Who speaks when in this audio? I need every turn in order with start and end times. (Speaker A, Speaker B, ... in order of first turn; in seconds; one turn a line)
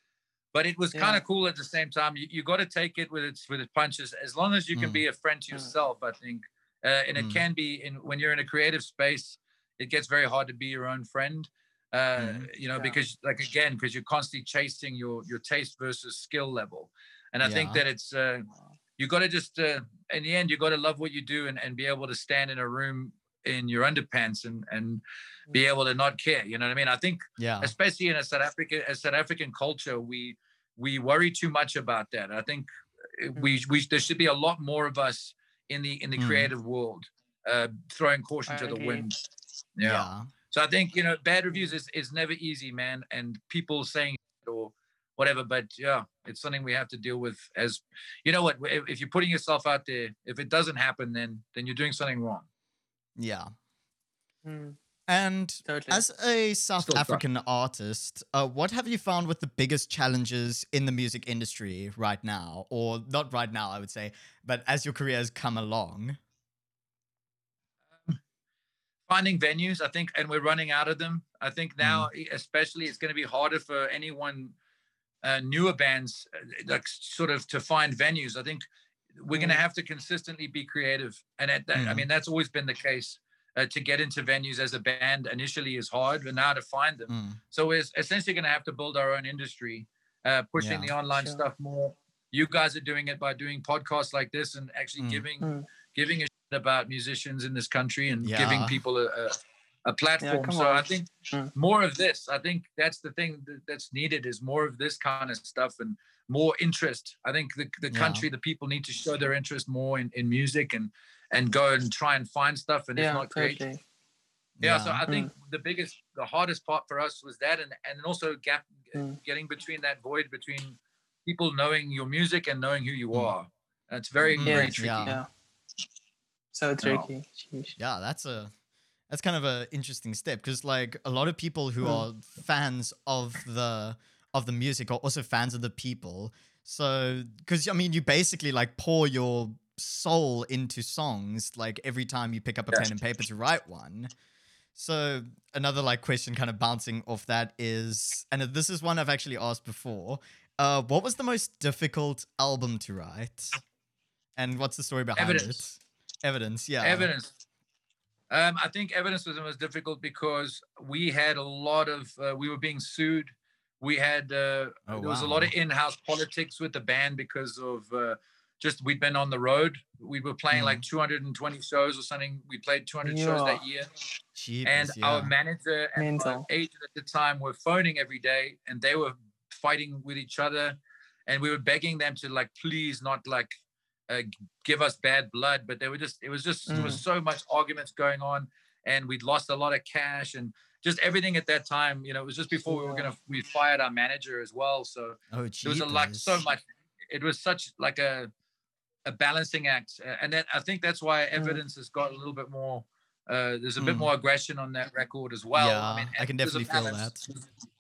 Speaker A: 0.5-18.5
Speaker B: 0.9-1.2
Speaker C: 4.8-5.0
Speaker C: 7.2-7.4
Speaker C: 12.2-12.5
Speaker C: 17.4-17.8
Speaker A: 19.0-39.2
Speaker C: 27.4-27.7
Speaker B: 33.4-33.6
Speaker C: 36.2-36.5
Speaker B: 38.5-39.1
Speaker A: 39.8-52.5
Speaker C: 39.8-40.3
Speaker B: 41.5-41.8
Speaker C: 53.2-53.5
Speaker B: 54.5-54.8
Speaker C: 55.1-66.2
Speaker B: 55.7-56.0
Speaker A: 56.8-57.2
Speaker A: 69.1-74.5
Speaker C: 71.8-72.1
Speaker A: 75.2-78.7
Speaker A: 79.2-113.6
Speaker B: 79.3-79.6
Speaker C: 81.8-82.0
Speaker C: 87.1-87.4
Speaker C: 90.6-90.9
Speaker B: 91.2-91.4
Speaker C: 95.0-95.2
Speaker B: 95.4-95.7
Speaker C: 98.2-98.8
Speaker B: 100.2-101.5
Speaker C: 107.9-108.2
Speaker B: 113.0-113.8
Speaker C: 114.6-115.0
Speaker A: 114.6-125.2
Speaker C: 124.3-125.2
Speaker B: 124.4-125.3
Speaker B: 126.5-127.8
Speaker A: 126.8-127.1
Speaker C: 127.8-128.5
Speaker C: 129.1-144.1
Speaker C: 144.8-153.5
Speaker C: 154.3-157.1
Speaker A: 155.2-155.6
Speaker A: 156.8-157.3
Speaker A: 158.3-173.9
Speaker C: 164.9-165.5
Speaker C: 170.5-170.8
Speaker B: 173.0-173.6
Speaker C: 174.3-175.3
Speaker A: 174.6-183.5
Speaker B: 176.0-176.5
Speaker A: 184.1-198.3
Speaker B: 186.7-187.0
Speaker C: 186.7-187.0
Speaker B: 192.7-193.1
Speaker C: 195.3-196.4
Speaker A: 199.1-207.4
Speaker B: 201.3-201.6
Speaker C: 203.8-204.1
Speaker C: 205.6-207.2